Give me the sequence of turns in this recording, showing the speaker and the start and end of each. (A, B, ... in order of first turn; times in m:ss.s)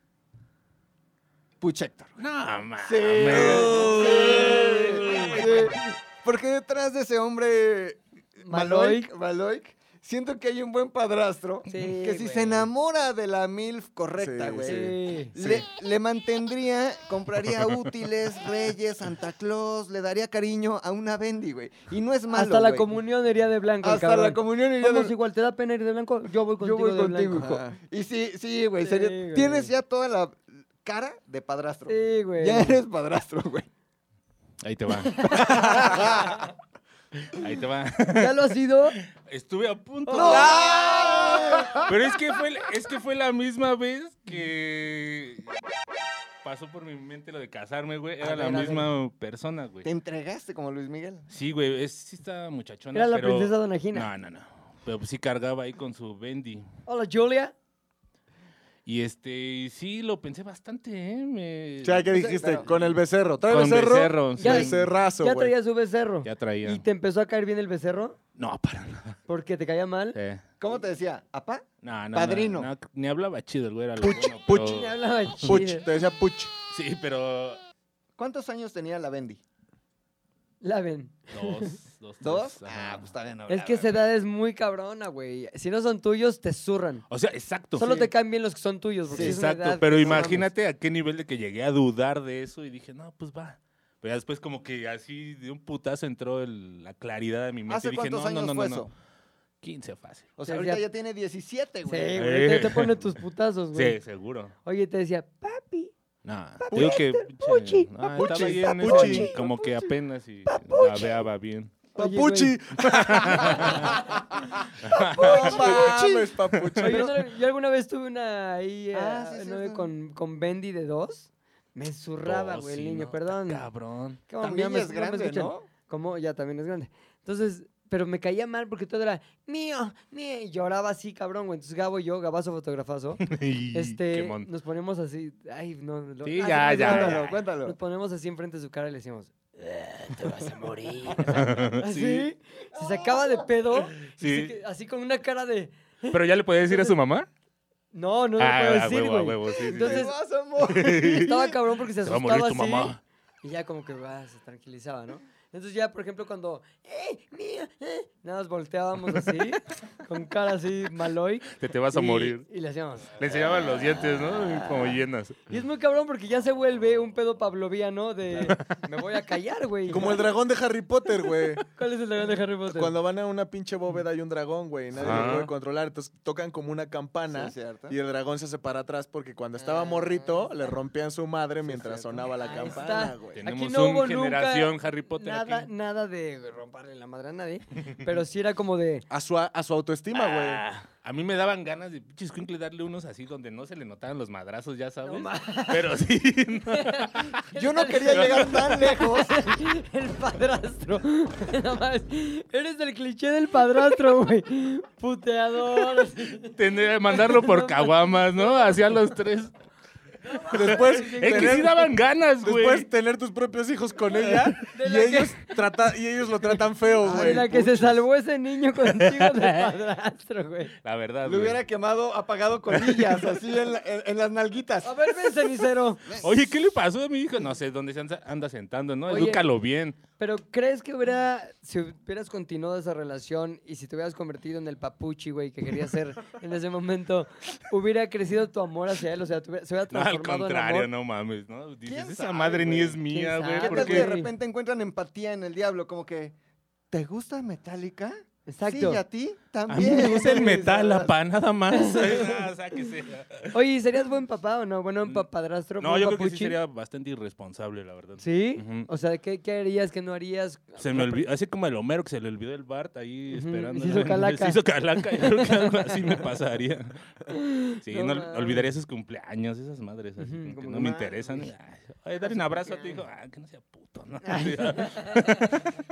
0:01.6-0:02.2 A
0:02.2-0:05.8 B
0:02.8-0:22.9 A
0:08.4-0:09.1 C
0:11.7-0:12.7 C
0:14.2-0:14.8 D
0:14.6-0:15.4 C
0:15.4-0:15.6 D
0:22.3-0:27.6 C
0:23.8-0:25.1 A
0:26.6-0:33.7 A
0:27.4-0:27.8 D
0:28.8-0:29.7 C
0:31.9-0:32.8 C
0:34.6-0:35.7 B
0:35.2-0:36.4 C
0:35.2-0:36.4 A
0:37.4-0:45.5 B
0:38.2-0:39.0 C
0:40.1-0:40.6 C
0:40.1-0:41.9 A
0:46.4-0:49.9 B
0:48.2-0:48.9 C
0:49.8-0:51.3 A
0:51.3-0:56.7 B
0:52.9-0:54.1 C
0:56.9-0:57.5 C
0:58.9-1:02.1 B
1:01.8-1:05.5 D
1:02.1-1:02.6 C
1:02.4-1:02.8 A
1:03.5-1:04.9 B
1:04.4-1:08.2 C
1:06.2-1:06.8 B
1:08.4-1:09.2 B
1:09.3-1:10.2 C
1:10.2-1:10.4 B
1:10.6-1:12.7 A
1:11.8-1:15.0 B
1:14.0-1:14.8 D
1:14.5-1:15.9 C
1:15.4-1:16.5 D
1:16.7-1:17.6 B
1:18.2-1:19.4 A
1:20.6-1:21.8 C
1:21.3-1:23.1 B
1:22.2-1:24.0 A
1:23.5-1:27.1 C
1:27.1-1:28.0 B
1:27.8-1:30.5 C
1:27.8-1:28.1 A
1:29.1-1:30.5 A
1:29.1-1:38.9 B
1:37.7-1:38.9 A
1:39.6-1:40.3 B
1:40.4-1:42.2 A
1:40.5-1:40.8 C
1:41.9-1:44.0 C
1:42.2-1:43.1 B
1:43.7-1:44.5 B
1:44.6-1:45.9 C
1:46.2-1:51.8 B
1:46.6-1:49.4 C
1:46.7-1:47.0 D
1:48.0-1:49.3 D
1:50.5-1:51.2 C
1:52.0-1:52.6 C
1:52.0-1:54.2 D
1:52.8-1:53.9 B
1:53.4-1:53.9 C
1:54.9-1:55.9 B
1:54.9-1:56.4 A
1:55.2-1:57.2 D
1:55.3-1:55.6 C
1:56.5-1:57.0 B
1:56.8-2:03.6 C
1:58.9-1:59.9 A
2:02.2-2:04.2 B
2:04.3-2:19.3 C
2:04.4-2:05.7 A
2:13.2-2:14.5 B
2:16.2-2:17.3 B
2:16.7-2:17.8 A
2:19.6-2:22.3 B
2:20.1-2:27.0 C
2:22.8-2:23.5 A
2:24.0-2:24.6 B
2:26.1-2:27.3 B
2:27.9-2:30.1 C
2:28.4-2:33.0 B
2:29.7-2:31.4 A
2:31.2-2:43.2 C
2:41.5-2:42.4 B
2:43.2-2:45.6 B
2:44.0-2:50.2 C
2:49.9-2:51.6 D
2:51.7-2:53.0 C
2:52.7-3:03.4 D
2:55.0-2:55.5 B
2:57.3-2:58.0 A
2:59.6-3:00.5 C
3:01.7-3:02.2 A
3:02.3-3:09.1 C
3:03.3-3:05.7 B
3:09.1-3:10.6 D
3:10.1-3:17.3 B
3:15.1-3:15.9 C
3:16.7-3:26.6 C
3:17.5-3:19.4 A
3:18.1-3:18.8 B
3:26.5-3:29.5 B
3:27.1-3:28.9 C
3:30.2-3:31.9 C
3:30.5-3:31.9 D
3:30.5-3:32.9 B
3:32.4-3:37.6 D
3:34.2-3:35.7 C
3:36.4-3:40.7 C
3:37.0-3:38.0 A
3:38.9-3:39.7 B
3:40.8-3:41.6 B
3:41.2-3:45.5 A
3:42.7-3:43.3 B
3:44.8-3:46.0 C
3:46.0-3:46.5 A
3:46.2-3:50.0 B
3:49.1-3:49.4 C
3:50.2-4:00.9 C
3:59.9-4:04.1 B
4:01.9-4:03.0 A
4:03.1-4:04.3 C
4:03.6-4:06.4 A
4:06.9-4:11.1 A
4:08.5-4:09.0 C
4:09.7-4:13.5 B
4:11.7-4:12.4 C
4:13.5-4:16.6 C
4:15.8-4:18.9 B
4:18.2-4:21.3 C
4:20.8-4:27.0 B
4:23.3-4:24.6 C
4:25.1-4:26.2 C
4:27.3-4:28.7 C
4:27.8-4:35.8 B
4:30.2-4:31.5 C
4:32.7-4:32.9 A
4:34.2-4:35.6 C